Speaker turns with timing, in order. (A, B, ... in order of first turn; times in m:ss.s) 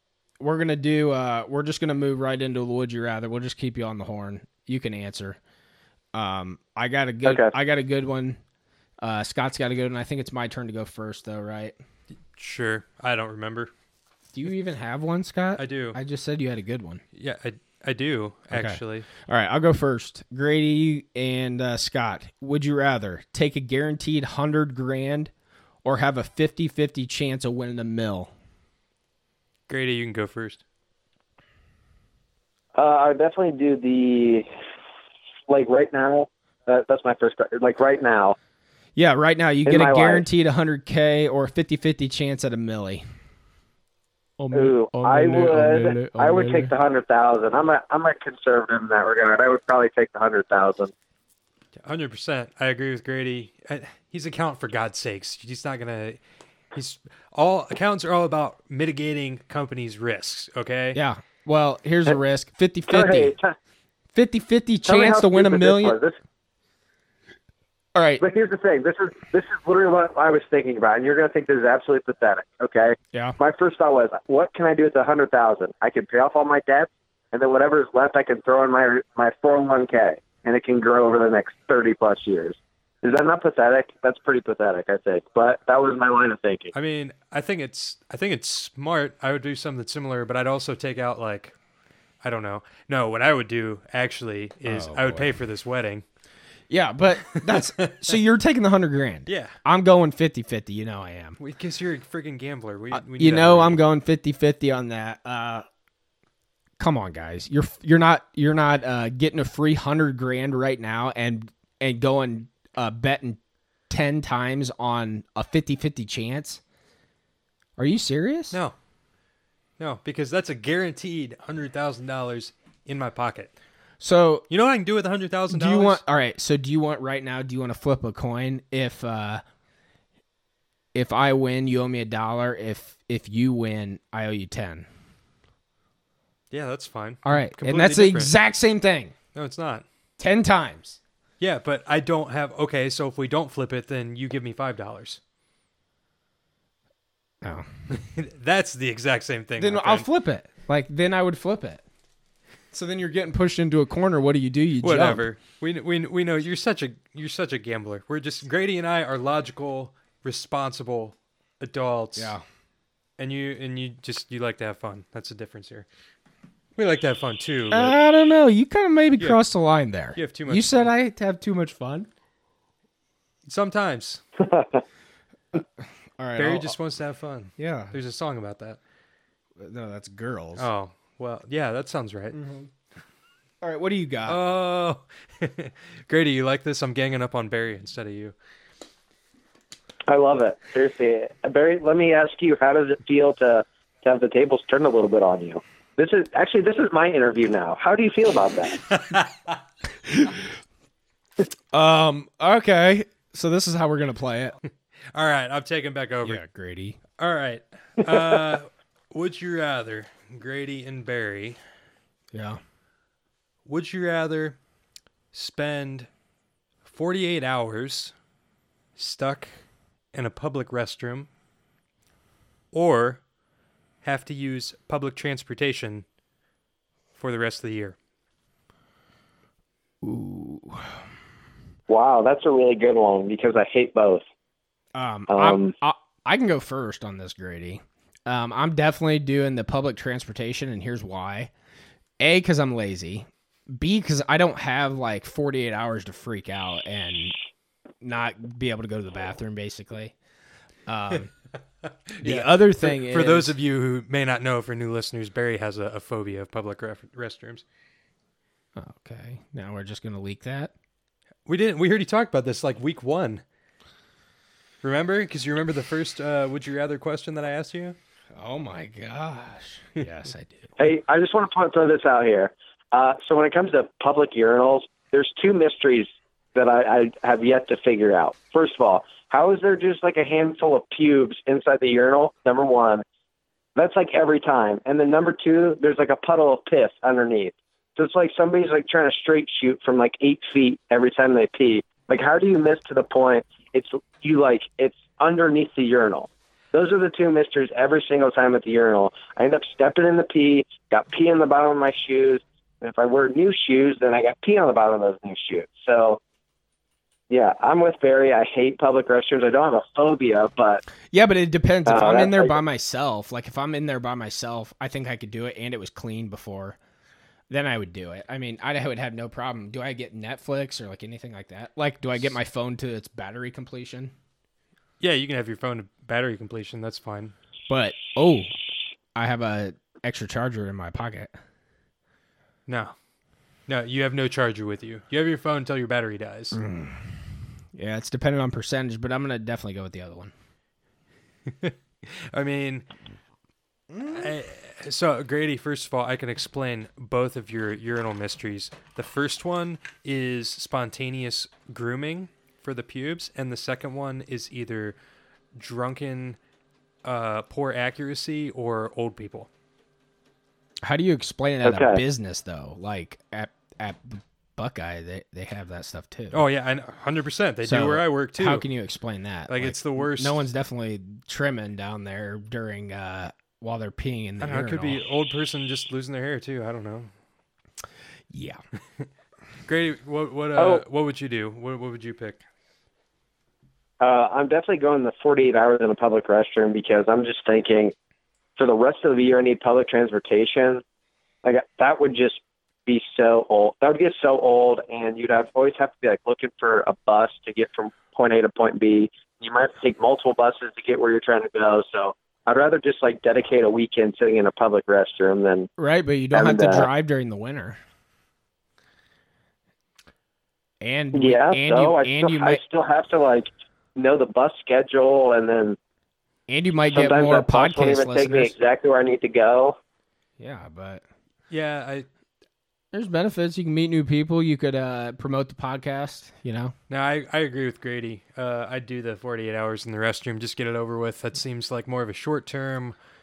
0:00.4-0:05.4 A
0:06.1-0:08.4 A
0:07.3-0:07.5 B
0:09.0-0:11.7 A
0:12.4-0:13.7 C
0:14.3-0:17.0 A
0:15.6-0:16.0 C
0:17.1-0:19.1 C
0:18.5-0:25.3 A
0:25.8-0:28.3 A
0:29.7-0:30.6 C
0:32.7-0:34.5 B
0:35.5-0:38.4 B
0:39.0-0:43.0 A
0:39.7-0:40.2 B
0:44.4-0:46.7 A
0:44.5-0:50.9 B
0:51.8-0:56.2 C
0:56.7-1:01.0 C
1:00.9-1:03.4 A
1:02.9-1:03.6 B
1:04.1-1:06.0 A
1:04.9-1:06.1 B
1:08.0-1:08.2 A
1:08.2-1:26.7 B
1:26.7-1:31.6 C
1:32.2-1:36.0 C
1:34.7-1:35.4 A
1:36.7-1:41.4 A
1:37.3-1:38.2 C
1:39.3-1:39.6 C
1:41.4-1:43.8 C
1:42.9-1:45.6 A
1:46.8-1:56.6 A
1:57.8-1:58.6 A
1:59.8-2:03.5 C
2:04.0-2:04.4 A
2:04.5-2:06.0 C
2:05.5-2:09.4 A
2:10.9-2:14.9 A
2:16.5-2:18.3 C
2:17.2-2:19.1 A
2:19.4-2:19.8 C
2:20.2-2:21.0 A
2:21.4-2:25.2 C
2:27.9-2:30.1 C
2:29.6-2:31.8 A
2:32.7-2:35.2 A
2:34.8-2:42.3 C
2:42.2-2:42.4 A
2:43.2-2:45.9 C
2:46.8-2:47.9 C
2:47.7-2:52.1 A
2:50.1-2:50.9 C
2:53.4-2:54.2 C
2:54.5-2:54.8 B
2:56.2-2:56.7 A
2:56.4-2:58.8 C
2:57.6-2:57.9 A
2:59.6-3:00.7 A
3:00.6-3:02.4 C
3:02.3-3:02.7 A
3:03.6-3:04.4 A
3:04.3-3:08.3 C
3:10.1-3:18.8 B
3:18.8-3:19.6 C
3:20.1-3:20.4 A
3:21.7-3:24.6 A
3:25.1-3:26.4 C
3:26.2-3:27.0 A
3:27.2-3:31.6 C
3:32.3-3:32.6 A
3:33.7-3:34.6 C
3:35.3-3:36.1 C
3:36.9-3:38.1 C
3:39.0-3:39.5 C
3:40.1-3:41.3 C
3:42.7-3:43.2 C
3:44.0-3:46.0 C
3:47.2-3:48.0 C
3:50.0-3:50.9 A
3:51.9-3:54.2 B
3:55.0-4:01.5 A
3:55.3-3:55.7 B
4:02.2-4:07.4 A
4:08.0-4:10.1 A
4:10.9-4:11.3 A
4:12.1-4:17.6 C
4:12.2-4:13.6 A
4:18.8-4:20.7 A
4:21.4-4:23.4 C
4:24.8-4:28.0 C
4:28.3-4:30.8 A
4:30.8-4:43.0 B
4:43.8-5:06.2 B
5:07.3-5:10.8 B
5:11.1-5:16.8 A
5:11.9-5:12.5 B
5:17.5-5:24.1 A
5:25.0-5:27.3 C
5:27.7-5:28.5 A
5:29.1-5:31.4 A
5:32.7-5:33.0 C
5:33.7-5:36.6 C
5:36.5-5:40.3 A
5:41.5-5:42.9 C
5:43.9-5:44.3 A
5:44.1-5:55.0 C
5:55.6-5:56.4 C
5:57.0-5:59.5 C
6:00.8-6:06.4 A
6:01.6-6:02.0 B
6:06.3-6:08.6 C
6:07.6-6:15.0 A
6:09.5-6:10.4 C
6:14.4-6:17.1 C
6:18.3-6:18.6 A
6:19.7-6:22.4 C
6:20.6-6:20.8 B
6:24.0-6:27.9 B
6:28.6-6:30.8 B
6:31.4-6:45.7 B
6:45.8-6:47.8 A
6:46.3-6:46.9 B
6:50.8-6:52.6 A
6:51.1-6:55.8 B
6:56.5-6:58.6 A
6:56.9-6:59.8 B
7:00.4-7:01.0 A
7:01.5-7:02.1 C
7:02.9-7:06.7 A
7:06.9-7:13.0 C